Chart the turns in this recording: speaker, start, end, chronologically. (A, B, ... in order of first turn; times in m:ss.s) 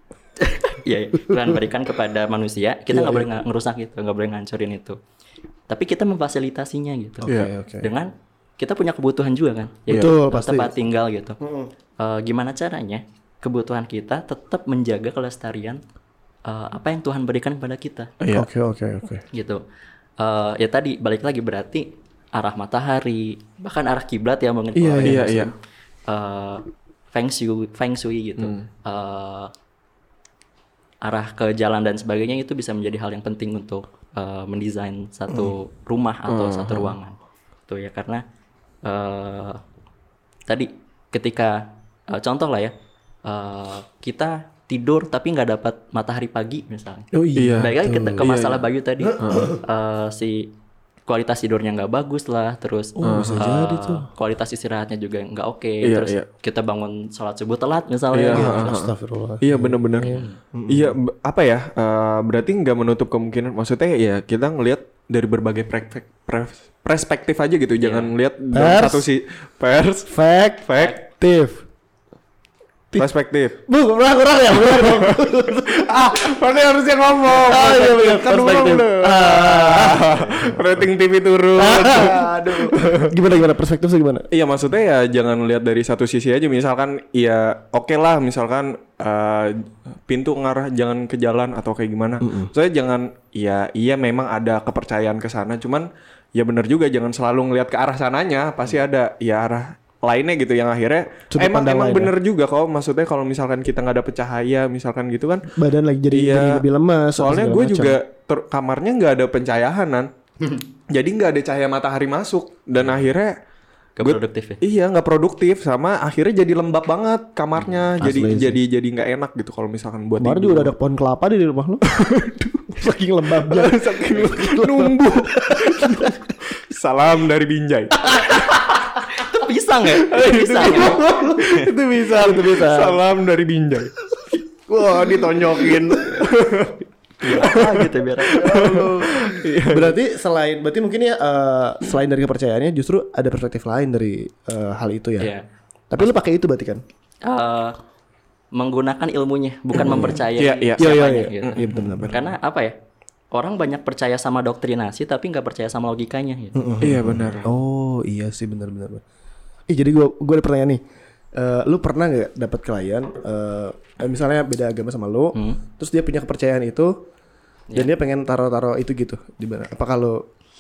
0:00.4-0:05.0 A
0:02.9-0:03.3 B
0:05.7-0:07.3 A
0:07.2-0:07.9 B
0:07.2-0:07.5 C
0:07.8-0:11.4 A
0:09.9-0:10.7 B
0:11.4-0:11.7 B
0:12.0-0:15.8 A
0:16.4-0:18.1 A
0:18.2-0:18.5 C
0:18.3-0:19.2 B
0:19.3-0:19.6 A
0:20.2-0:25.5 A
0:24.7-0:25.4 B
0:25.0-0:25.5 C
0:26.1-0:29.5 A
0:28.4-0:28.6 C
0:31.0-0:38.2 A
0:36.3-0:36.9 C
0:38.8-0:39.6 A
0:40.5-0:42.7 A
0:43.2-0:50.5 A
0:47.1-0:48.3 B
0:47.3-0:48.6 C
0:49.0-0:49.6 B
0:49.2-0:49.6 C
0:51.1-0:58.7 A
0:53.0-0:54.1 B
0:53.0-0:53.4 C
0:55.8-0:56.2 C
0:58.1-1:10.1 C
0:58.3-1:01.0 B
1:00.0-1:00.4 A
1:07.8-1:08.1 A
1:08.5-1:09.1 B
1:10.1-1:11.6 B
1:10.6-1:11.0 C
1:13.0-1:13.6 C
1:13.7-1:16.4 B
1:14.6-1:23.1 C
1:17.2-1:20.6 B
1:21.6-1:24.3 B
1:24.3-1:45.5 C
1:32.2-1:32.5 B
1:41.3-1:42.1 B
1:45.5-1:48.0 B
1:46.1-1:46.6 C
1:47.2-1:50.1 C
1:50.9-1:53.4 C
1:54.0-1:54.6 A
1:54.0-2:00.7 C
1:58.0-1:58.6 B
2:00.2-2:01.9 B
2:01.9-2:02.6 C
2:02.7-2:06.3 B
2:03.4-2:08.1 C
2:08.0-2:08.5 B
2:08.1-2:11.6 A
2:10.0-2:13.9 C
2:10.2-2:13.0 B
2:14.1-2:16.3 B
2:14.7-2:20.0 C
2:17.2-2:18.6 A
2:18.3-2:25.3 B
2:25.2-2:25.4 A
2:25.9-2:26.8 B
2:27.2-2:27.8 A
2:28.5-2:32.8 A
2:29.7-2:30.2 B
2:30.0-2:32.1 C
2:30.8-2:32.3 B
2:33.3-2:36.8 A
2:36.5-2:39.0 B
2:36.8-2:37.5 C
2:39.7-2:40.8 B
2:41.3-2:47.0 B
2:45.3-2:45.6 A
2:47.7-2:50.2 B